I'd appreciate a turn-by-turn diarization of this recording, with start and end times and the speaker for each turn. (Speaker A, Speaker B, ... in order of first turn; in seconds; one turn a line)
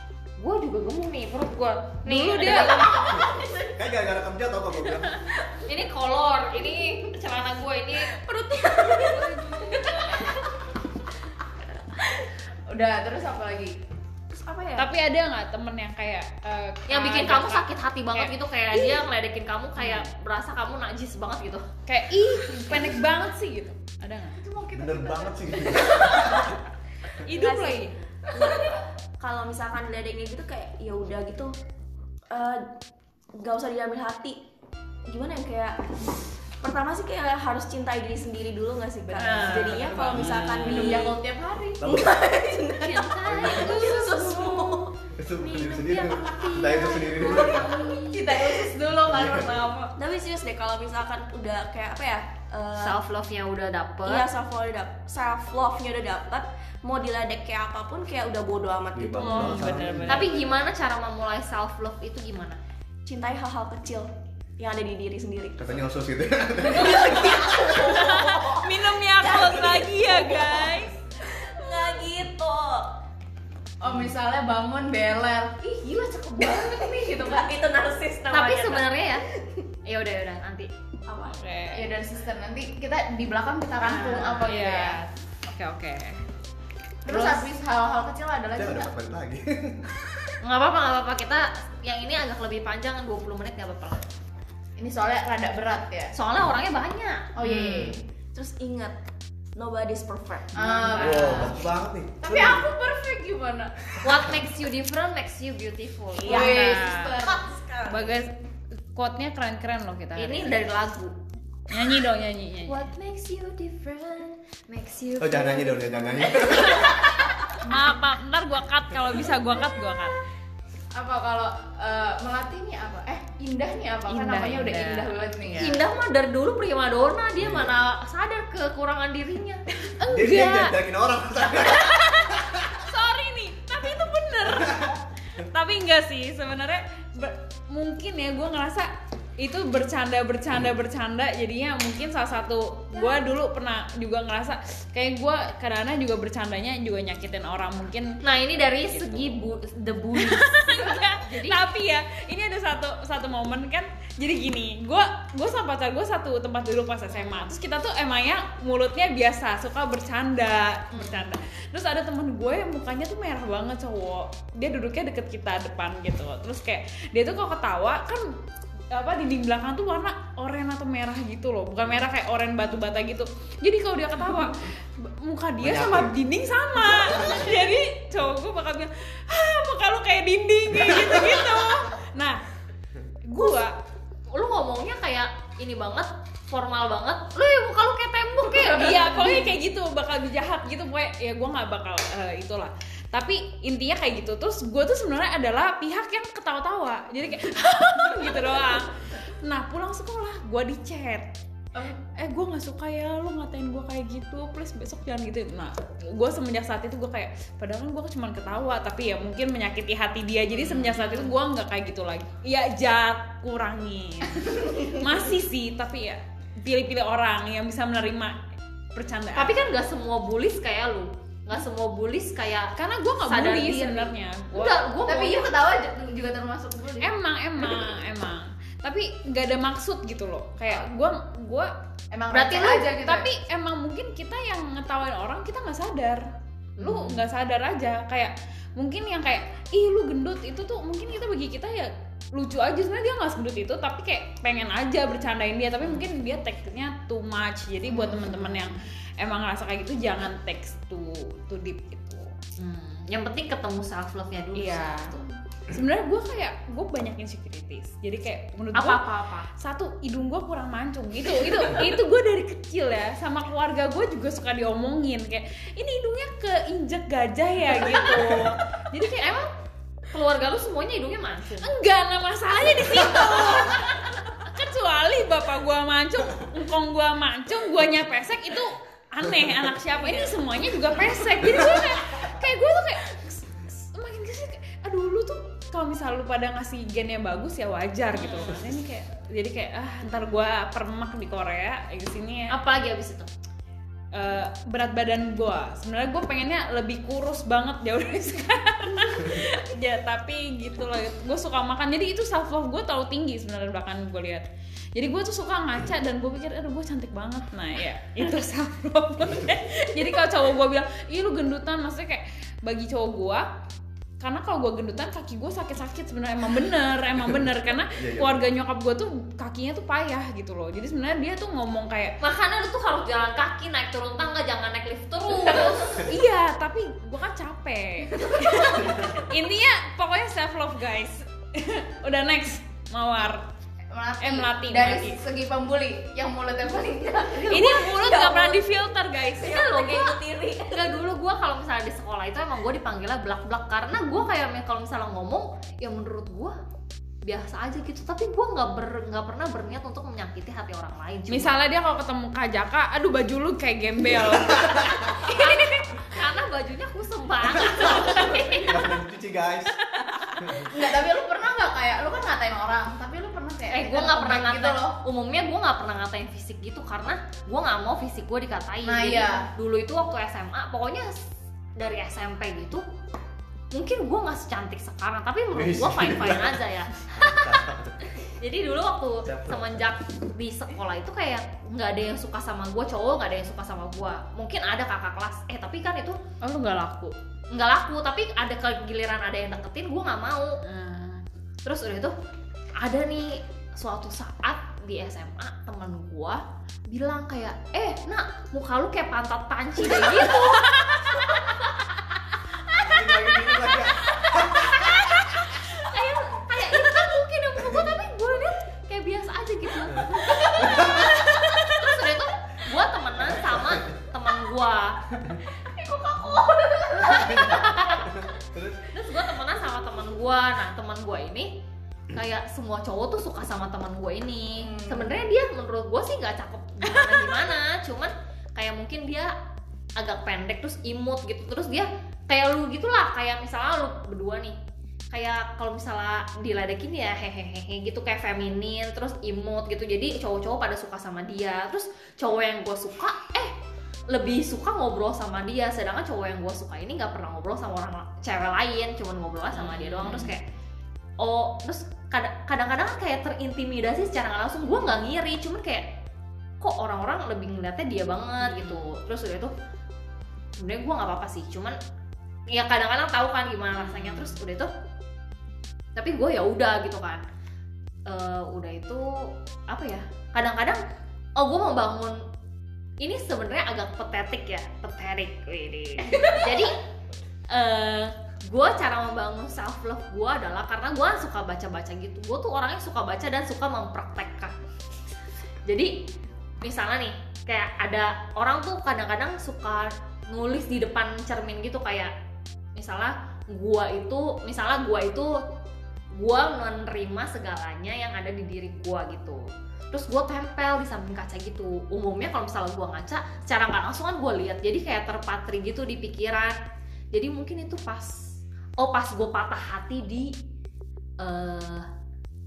Speaker A: 0.4-3.1
Speaker B: 2.1-3.1
Speaker C: 2.4-3.9
Speaker D: 3.1-5.2
Speaker A: 5.7-8.2
Speaker C: 6.7-7.0
Speaker C: 8.1-10.5
Speaker E: 12.7-13.8
Speaker C: 14.3-14.9
Speaker B: 14.8-19.1
Speaker A: 16.9-21.7
Speaker B: 19.8-20.1
Speaker B: 21.9-24.4
Speaker E: 22.7-23.0
Speaker E: 24.4-26.3
Speaker D: 24.8-26.6
Speaker B: 27.2-28.0
Speaker C: 27.3-31.5
Speaker C: 32.3-32.7
Speaker C: 33.4-34.4
Speaker C: 35.1-35.8
Speaker C: 36.6-41.1
Speaker B: 39.2-41.0
Speaker A: 39.2-40.0
Speaker D: 39.8-40.6
Speaker A: 40.7-41.0
Speaker E: 40.7-42.0
Speaker D: 41.8-42.1
Speaker C: 41.8-44.9
Speaker A: 42.8-44.6
Speaker D: 43.3-43.8
Speaker E: 44.1-44.5
Speaker D: 45.2-47.7
Speaker A: 45.4-48.1
Speaker C: 46.4-48.7
Speaker E: 47.6-49.9
Speaker D: 49.1-49.5
Speaker C: 50.0-53.0
Speaker A: 52.8-54.3
Speaker C: 54.0-59.8
Speaker D: 59.0-60.5
Speaker B: 59.2-60.4
Speaker A: 60.1-62.6
Speaker C: 63.0-65.7
Speaker D: 65.6-67.6
Speaker C: 66.6-72.9
Speaker B: 67.7-70.9
Speaker E: 73.8-77.5
Speaker C: 76.5-79.7
Speaker A: 78.3-79.2
Speaker A: 79.9-80.7
Speaker E: 81.1-85.0
Speaker B: 81.3-81.9
Speaker B: 83.8-86.2
Speaker E: 87.0-88.9
Speaker B: 87.1-87.5
Speaker D: 88.5-89.9
Speaker A: 90.4-94.0
Speaker E: 94.8-96.1
Speaker A: 96.1-97.7
Speaker E: 97.4-98.0
Speaker B: 97.4-97.9
Speaker C: 98.3-99.0
Speaker C: 99.6-101.1
Speaker E: 100.5-101.6
Speaker A: 100.8-101.5
Speaker D: 101.0-102.7
Speaker E: 102.2-103.7
Speaker A: 104.0-106.7
Speaker E: 106.2-107.5
Speaker C: 106.2-108.2
Speaker B: 106.3-107.2
Speaker B: 107.9-108.3
Speaker B: 108.9-110.6
Speaker A: 110.2-111.2
Speaker B: 111.7-112.8
Speaker A: 112.7-115.8
Speaker D: 115.2-117.1
Speaker B: 117.6-120.2
Speaker E: 120.9-125.8
Speaker B: 124.1-125.7
Speaker A: 125.5-129.6
Speaker D: 127.4-127.8
Speaker B: 129.9-130.8
Speaker D: 130.1-132.7
Speaker B: 131.7-148.2
Speaker D: 134.5-134.9
Speaker A: 148.2-151.6
Speaker B: 148.9-149.3
Speaker B: 150.1-168.3
Speaker B: 168.9-182.4
Speaker D: 175.6-176.1
Speaker D: 176.9-177.5
Speaker B: 183.3-183.7
Speaker A: 184.3-189.5
Speaker E: 188.5-189.5
Speaker B: 188.7-201.3
Speaker E: 198.2-198.7
Speaker B: 202.2-218.4
Speaker A: 210.5-211.3
Speaker B: 218.9-219.6
Speaker A: 219.3-222.7
Speaker B: 222.8-224.9
Speaker A: 223.2-225.5
Speaker E: 225.1-227.8
Speaker B: 227.0-231.7
Speaker E: 232.1-233.3
Speaker A: 232.3-232.9
Speaker B: 232.9-236.3
Speaker A: 236.8-237.2
Speaker B: 236.8-252.3
Speaker A: 245.8-246.1
Speaker A: 247.9-248.7
Speaker A: 252.6-255.3
Speaker B: 254.6-255.1
Speaker B: 255.7-269.4
Speaker A: 258.8-259.5
Speaker A: 267.8-268.1
Speaker A: 269.0-269.5
Speaker A: 270.1-271.7
Speaker B: 271.6-292.6
Speaker A: 288.1-288.6
Speaker A: 292.5-293.3
Speaker B: 294.1-313.5
Speaker B: 314.2-322.2
Speaker D: 318.0-318.4
Speaker A: 322.2-326.1
Speaker B: 325.6-333.5
Speaker C: 328.2-328.8
Speaker E: 333.9-338.1
Speaker B: 334.2-335.2
Speaker B: 337.5-339.7
Speaker C: 337.9-338.6
Speaker C: 339.4-341.0
Speaker A: 339.4-346.6
Speaker A: 347.2-351.5
Speaker B: 351.3-355.6
Speaker D: 354.2-355.1
Speaker A: 355.2-358.8
Speaker D: 357.5-359.7
Speaker B: 359.9-360.4
Speaker D: 360.4-360.7
Speaker E: 360.7-365.0
Speaker A: 363.7-371.2
Speaker E: 368.8-369.5
Speaker A: 371.8-372.8
Speaker A: 373.7-377.6
Speaker D: 375.5-378.1
Speaker A: 378.4-386.2
Speaker D: 379.3-379.8
Speaker B: 386.4-387.1
Speaker A: 387.5-390.6
Speaker B: 390.6-391.2
Speaker A: 391.6-392.1
Speaker A: 392.8-401.6
Speaker D: 402.8-404.8
Speaker A: 403.4-403.7
Speaker A: 404.5-415.0
Speaker D: 409.9-411.1
Speaker D: 413.2-413.9
Speaker E: 415.8-417.6
Speaker A: 417.0-418.1
Speaker D: 417.0-418.8
Speaker A: 418.9-421.5
Speaker A: 422.1-429.3
Speaker E: 424.6-425.2
Speaker A: 430.0-434.6
Speaker A: 435.1-443.5
Speaker A: 444.1-450.4
Speaker B: 449.5-450.3
Speaker A: 451.2-455.9
Speaker A: 456.6-459.5
Speaker B: 458.4-458.9
Speaker A: 460.6-461.8
Speaker A: 462.5-464.7
Speaker B: 463.7-464.4
Speaker A: 466.0-467.2
Speaker A: 468.1-469.1
Speaker A: 469.7-470.8
Speaker A: 471.4-472.2
Speaker A: 473.0-476.8
Speaker C: 476.1-476.6
Speaker A: 477.5-484.5
Speaker A: 485.6-486.1
Speaker A: 486.6-492.1
Speaker A: 492.8-495.4
Speaker A: 496.1-506.6
Speaker A: 507.1-508.2
Speaker A: 508.8-510.3
Speaker A: 511.2-511.9